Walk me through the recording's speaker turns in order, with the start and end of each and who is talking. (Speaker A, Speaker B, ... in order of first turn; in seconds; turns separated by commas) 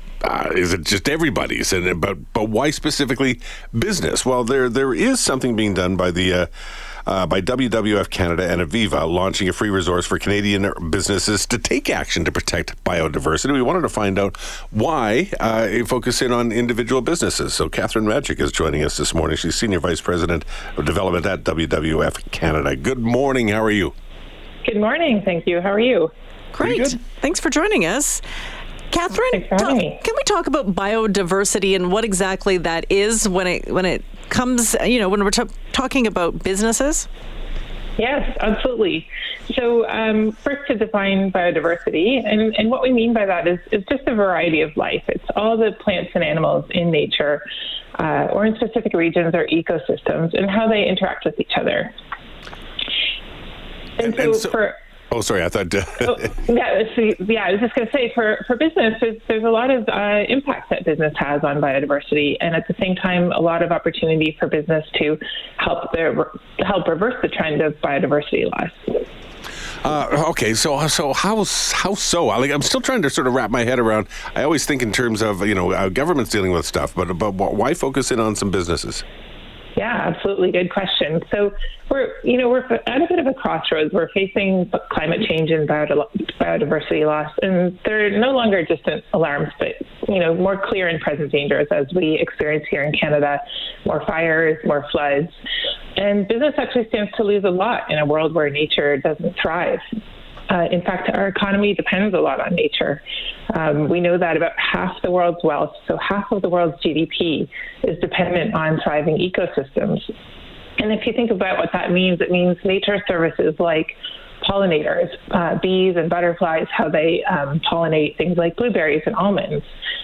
Speaker A: 0.2-6.5, Speaker A: 7.1-23.9, Speaker B: 24.6-26.1, Speaker C: 26.5-28.2, Speaker A: 26.6-27.0, Speaker C: 28.9-37.1, Speaker B: 29.3-30.0, Speaker B: 38.0-47.4, Speaker B: 48.0-51.9, Speaker B: 54.0-54.8, Speaker A: 54.0-54.6, Speaker A: 55.1-56.3, Speaker B: 56.2-69.0, Speaker A: 69.8-79.0, Speaker B: 79.8-95.3, Speaker B: 96.0-99.8, Speaker B: 100.5-110.1, Speaker B: 110.8-119.7